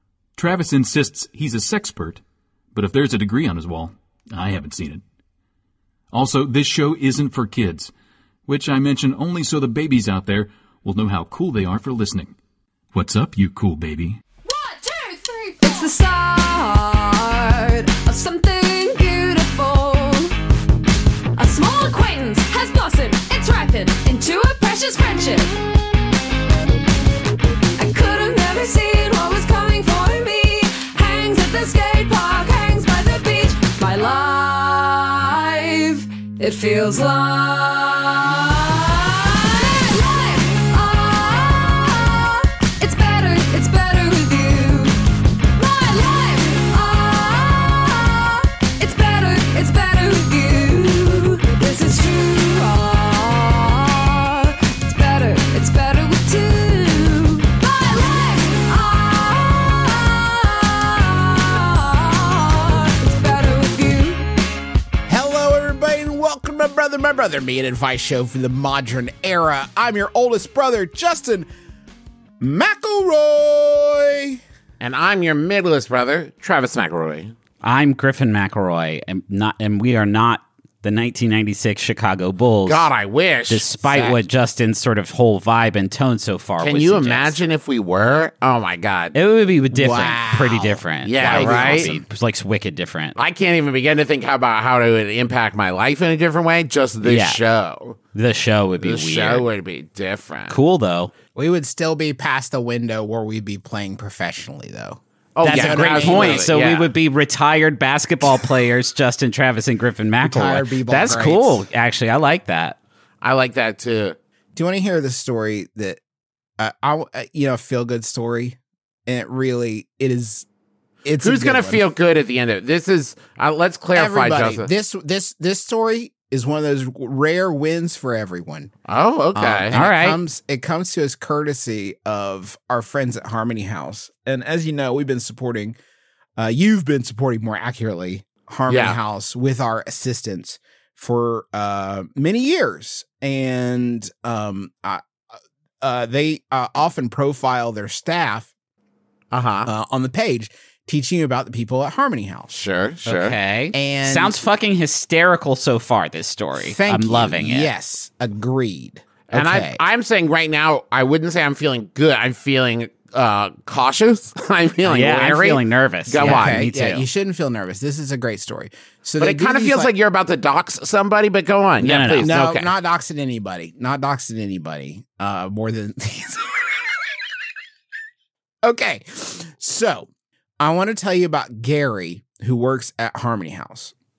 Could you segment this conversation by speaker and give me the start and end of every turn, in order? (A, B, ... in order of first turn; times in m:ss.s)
0:00.4-0:02.2 A
0:02.7-0:05.0 A
0:06.1-0:07.9 A
0:08.5-0:12.3 A
0:12.9-0:14.2 A
0:14.4-0:20.3 B
0:21.3-0:25.6 B
0:27.8-0:45.0 B
0:45.5-1:04.3 B
1:05.1-1:11.5 C
1:12.4-1:14.4 C
1:14.8-1:17.3 D
1:17.6-1:22.8 E
1:22.6-1:24.2 D
1:23.5-1:27.4 E
1:26.6-1:29.1 D
1:29.1-1:33.2 E
1:29.7-1:32.0 C
1:31.0-1:31.9 D
1:33.2-1:38.0 D
1:37.0-1:37.4 E
1:38.1-1:39.4 E
1:38.8-1:40.6 D
1:40.5-1:41.1 E
1:41.3-1:46.5 C
1:45.4-1:46.9 D
1:45.4-1:52.8 E
1:50.2-1:51.6 C
1:53.2-1:54.2 D
1:54.5-1:56.0 C
1:56.6-2:00.4 C
2:01.0-2:01.8 C
2:01.2-2:04.7 D
2:03.9-2:08.7 C
2:08.9-2:09.8 D
2:09.3-2:15.8 C
2:09.7-2:10.2 E
2:16.4-2:25.0 C
2:18.7-2:19.0 D
2:25.8-2:28.5 C
2:29.3-2:29.7 D
2:29.6-2:32.5 C
2:32.5-2:33.4 D
2:33.0-2:37.7 E
2:33.7-2:34.4 C
2:36.6-2:39.8 C
2:39.3-2:46.9 D
2:44.8-2:47.0 E
2:46.2-2:49.9 C
2:49.2-2:52.7 D
2:51.8-2:52.3 E
2:52.2-2:56.9 C
2:58.6-3:00.1 C
3:00.6-3:03.9 C